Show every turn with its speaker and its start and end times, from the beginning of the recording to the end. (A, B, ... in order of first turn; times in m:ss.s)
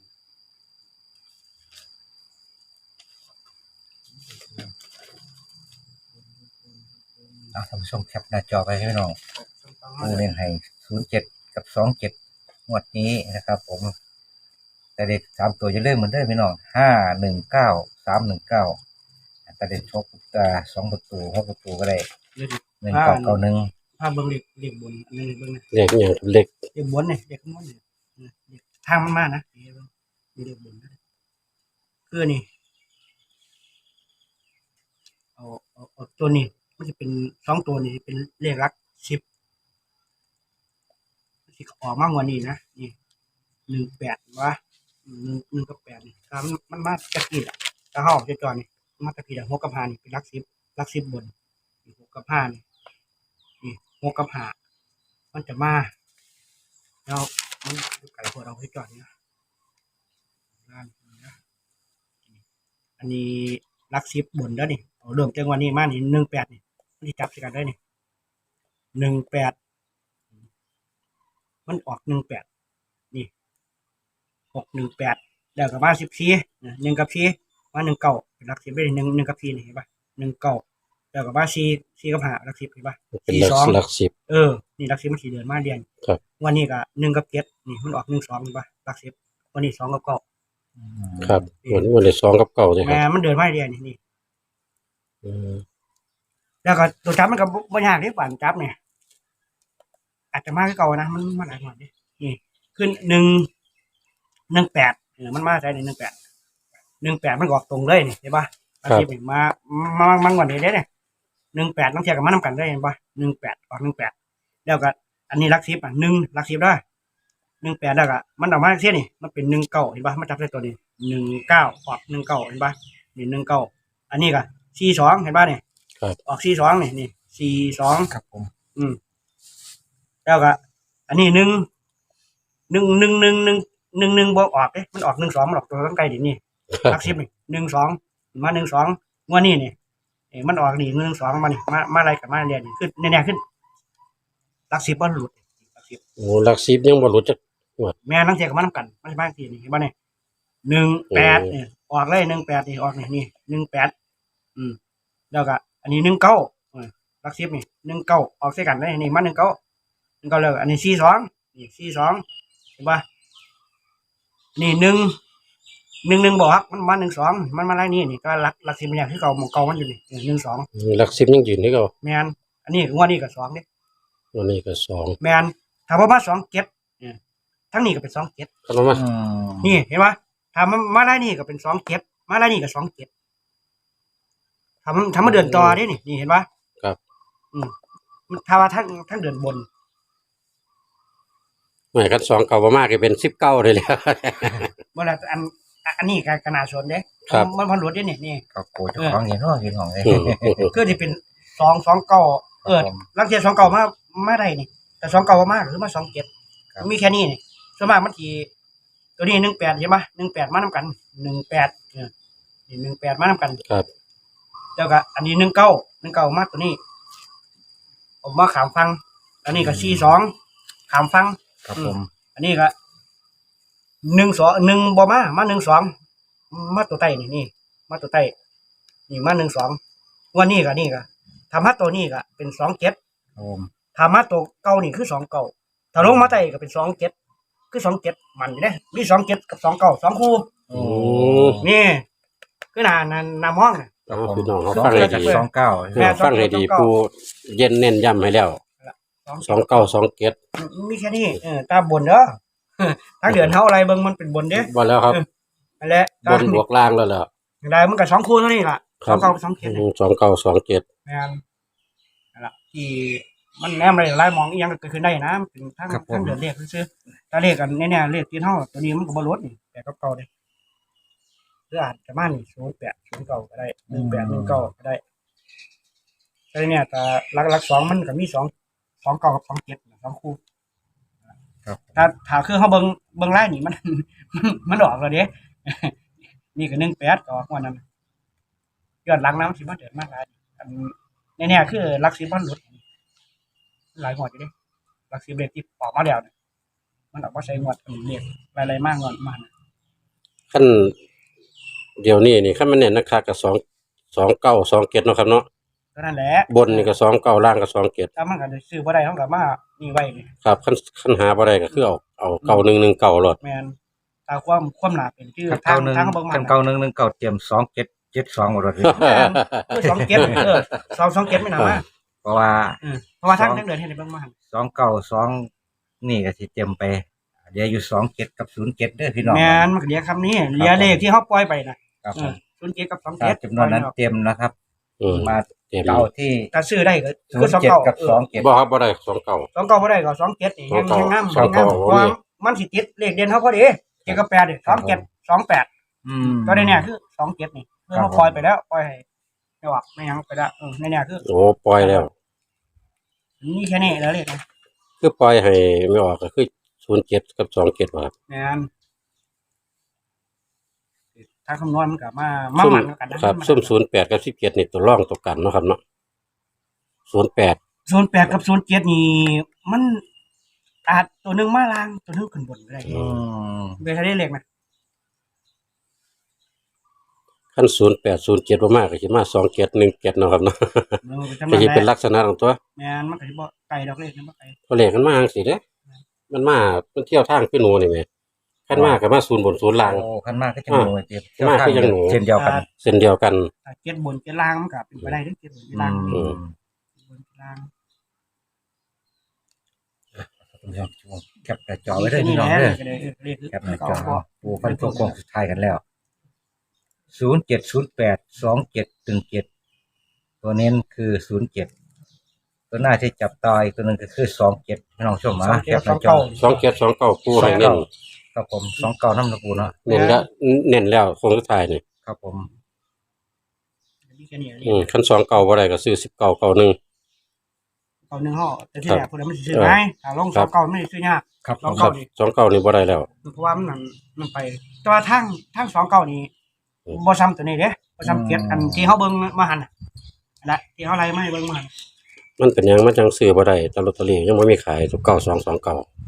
0:07.5-0:09.2 A
0:09.4-0:10.3 B
0:10.0-0:12.2 A
0:12.7-0:13.9 A
0:15.0-0:18.8 A
0:19.5-0:22.1 A
0:22.4-0:23.4 B
0:22.8-0:23.7 A
0:24.0-0:25.6 B
0:25.7-0:26.5 C
0:26.7-0:31.0 B
0:32.1-0:32.5 B
0:35.4-0:39.2 B
0:41.5-0:42.9 B
0:43.7-0:51.3 B
0:51.9-0:52.6 B
0:53.6-0:54.6 B
0:55.3-0:55.9 B
0:57.1-0:59.1 B
1:00.7-1:01.3 B
1:03.0-1:07.8 B
1:09.0-1:09.6 B
1:11.7-1:12.4 B
1:14.5-1:25.9 B
1:23.2-1:24.1 C
1:26.4-1:30.2 B
1:30.8-1:31.5 A
1:31.2-1:33.0 C
1:31.6-1:31.9 B
1:32.8-1:34.0 B
1:35.2-1:35.6 C
1:36.6-1:38.8 B
1:40.3-1:43.5 B
1:44.5-1:46.2 B
1:47.0-1:50.9 B
1:51.5-1:54.1 B
1:54.6-1:56.8 B
1:57.6-2:05.6 B
2:06.3-2:08.1 B
2:08.1-2:08.5 A
2:10.2-2:10.6 B
2:11.1-2:11.7 B
2:12.7-2:19.8 B
2:16.8-2:17.1 C
2:20.3-2:23.4 B
2:24.7-2:26.0 B
2:26.2-2:27.9 C
2:28.0-2:29.9 B
2:30.6-2:33.9 B
2:31.1-2:31.5 C
2:35.3-2:39.6 B
2:40.2-2:42.2 B
2:42.8-2:43.0 B
2:44.6-2:45.2 B
2:46.0-2:50.7 B
2:50.8-2:51.9 C
2:52.0-2:53.6 B
2:54.3-2:55.2 C
2:55.2-2:57.2 B
2:57.7-2:58.5 B
2:58.7-2:59.0 C
2:58.9-2:59.8 A
2:59.6-3:03.1 B
3:04.8-3:06.5 B
3:05.2-3:05.8 C
3:08.3-3:09.7 B
3:11.9-3:14.7 C
3:14.9-3:18.4 B
3:18.5-3:20.7 A
3:20.0-3:20.7 C
3:20.7-3:26.3 B
3:22.6-3:23.0 A
3:26.8-3:28.5 B
3:29.2-3:32.1 B
3:32.7-3:33.6 B
3:34.8-3:36.8 B
3:38.2-3:40.3 B
3:39.5-3:40.1 A
3:40.9-3:42.7 B
3:41.6-3:42.1 A
3:44.0-3:45.9 B
3:46.5-3:48.3 B
3:49.1-3:49.8 B
3:50.3-3:53.0 B
3:53.4-3:53.7 A
3:53.9-3:57.2 B
3:56.0-3:56.3 A
3:57.7-4:00.5 B
4:00.7-4:01.7 A
4:00.7-4:01.6 C
4:01.6-4:02.0 B
4:02.7-4:04.0 B
4:04.1-4:06.2 A
4:04.1-4:05.4 C
4:04.7-4:06.9 B
4:06.0-4:08.6 C
4:08.8-4:09.9 B
4:09.4-4:10.4 C
4:10.6-4:15.2 B
4:13.3-4:13.6 C
4:14.5-4:15.2 C
4:15.8-4:16.6 B
4:16.2-4:17.3 C
4:17.6-4:19.8 B
4:19.0-4:20.8 C
4:21.1-4:21.4 B
4:22.4-4:30.3 B
4:25.9-4:26.4 A
4:31.7-4:35.0 B
4:33.9-4:34.7 A
4:36.5-4:40.4 B
4:41.6-4:42.0 A
4:42.0-4:46.0 B
4:46.6-4:47.8 B
4:49.0-4:52.8 B
4:54.0-4:54.5 B
4:55.1-4:56.3 B
4:57.1-4:59.5 B
5:00.5-5:01.0 C
5:02.0-5:03.6 C
5:04.1-5:05.5 C
5:06.0-5:07.0 B
5:06.5-5:08.1 C
5:08.2-5:10.3 B
5:10.4-5:13.4 C
5:13.4-5:13.8 B
5:14.3-5:16.6 B
5:15.5-5:19.1 A
5:18.8-5:20.6 C
5:18.9-5:21.8 B
5:19.9-5:20.5 A
5:21.5-5:21.8 C
5:22.2-5:23.7 A
5:22.8-5:24.3 B
5:24.5-5:25.5 A
5:26.0-5:29.7 A
5:29.2-5:33.9 B
5:30.6-5:31.0 A
5:32.0-5:32.4 A
5:33.2-5:34.5 A
5:35.0-5:36.1 C
5:35.1-5:36.5 A
5:36.5-5:38.3 B
5:37.3-5:38.5 A
5:38.4-5:39.5 C
5:39.5-5:45.7 B
5:40.7-5:42.2 C
5:41.3-5:41.8 A
5:44.1-5:45.0 A
5:46.0-5:46.9 A
5:46.2-5:49.0 B
5:47.9-5:48.4 A
5:49.6-5:51.2 B
5:51.2-5:52.1 C
5:51.8-5:52.1 B
5:53.4-5:54.4 B
5:55.0-5:58.1 C
5:58.3-5:58.7 B
6:01.2-6:03.8 B
6:02.6-6:05.8 C
6:07.1-6:07.6 C
6:07.9-6:10.0 B
6:10.9-6:13.1 B
6:12.9-6:13.2 C
6:12.9-6:13.8 A
6:13.8-6:14.4 B
6:17.6-6:22.6 C
6:21.0-6:21.9 B
6:22.8-6:24.6 B
6:24.7-6:25.6 C
6:26.3-6:28.1 C
6:28.7-6:30.0 C
6:28.7-6:29.0 A
6:29.8-6:32.7 A
6:30.7-6:32.2 C
6:32.4-6:32.6 B
6:32.8-6:33.5 C
6:33.6-6:36.3 B
6:35.7-6:36.5 A
6:36.1-6:36.4 C
6:37.0-6:37.7 B
6:40.2-6:42.8 A
6:41.9-6:45.2 B
6:43.5-6:45.8 A
6:47.1-6:49.5 A
6:50.4-6:51.7 A
6:52.7-6:56.4 A
6:55.4-6:56.6 B
6:56.4-6:57.9 C
6:57.3-6:59.8 A
6:59.8-7:01.8 C
6:59.9-7:00.2 B
7:02.0-7:02.5 A
7:04.1-7:04.9 B
7:04.6-7:06.8 C
7:08.1-7:12.1 B
7:08.8-7:09.8 C
7:11.4-7:11.9 A
7:11.6-7:13.1 C
7:13.2-7:16.3 B
7:16.9-7:19.7 B
7:18.0-7:19.0 A
7:20.4-7:21.7 B
7:22.4-7:25.9 C